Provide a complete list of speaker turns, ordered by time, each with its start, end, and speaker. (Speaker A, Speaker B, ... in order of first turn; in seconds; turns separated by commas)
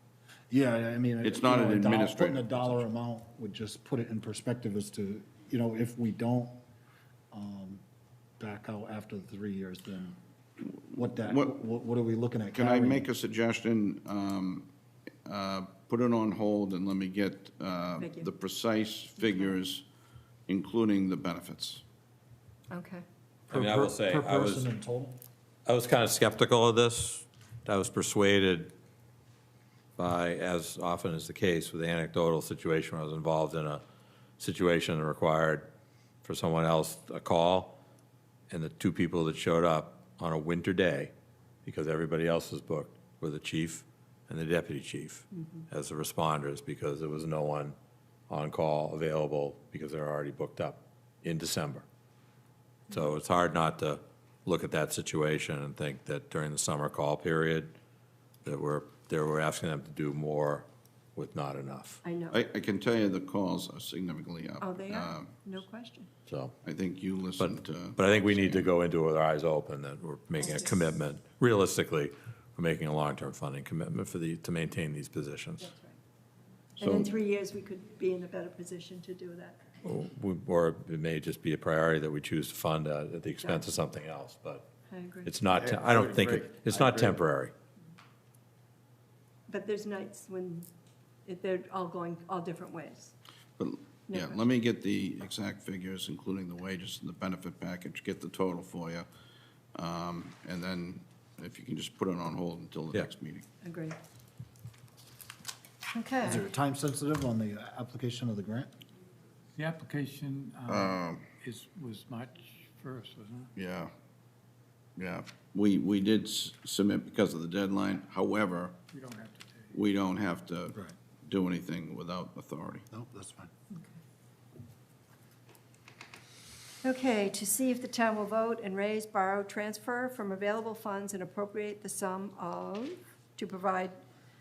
Speaker A: 0.5-6.6, Speaker B: 1.2-2.8, Speaker A: 7.3-7.8, Speaker A: 8.4-10.2, Speaker A: 10.9-13.1, Speaker B: 12.5-14.7, Speaker B: 15.2-19.8, Speaker C: 18.0-18.3, Speaker B: 20.5-21.8, Speaker C: 22.7-23.0, Speaker A: 23.5-25.2, Speaker D: 23.5-24.7, Speaker D: 25.6-28.7, Speaker D: 30.0-33.8, Speaker D: 34.4-35.7, Speaker D: 36.2-37.8, Speaker D: 38.5-41.1, Speaker D: 41.6-47.7, Speaker C: 45.3-45.6, Speaker D: 48.3-51.8, Speaker D: 52.9-57.7, Speaker D: 58.4-62.0, Speaker C: 62.0-62.4, Speaker B: 62.3-65.3, Speaker C: 64.6-66.1, Speaker D: 66.3-66.5, Speaker B: 66.6-68.7, Speaker D: 67.4-75.7, Speaker C: 75.6-76.0, Speaker C: 76.8-79.6, Speaker B: 76.8-77.1, Speaker D: 79.8-84.7, Speaker C: 83.4-83.7, Speaker C: 84.9-85.3, Speaker D: 85.2-87.5, Speaker B: 85.5-87.1, Speaker C: 89.5-90.7, Speaker C: 91.2-93.1, Speaker B: 93.6-99.1, Speaker C: 94.1-94.4, Speaker B: 99.7-103.4, Speaker C: 103.6-104.0, Speaker C: 105.9-106.5, Speaker A: 106.2-108.7, Speaker E: 109.6-113.5, Speaker B: 110.7-111.3, Speaker B: 113.5-113.9, Speaker B: 115.0-118.8, Speaker E: 118.9-119.8, Speaker B: 119.7-122.8, Speaker A: 122.9-123.5, Speaker C: 126.8-134.0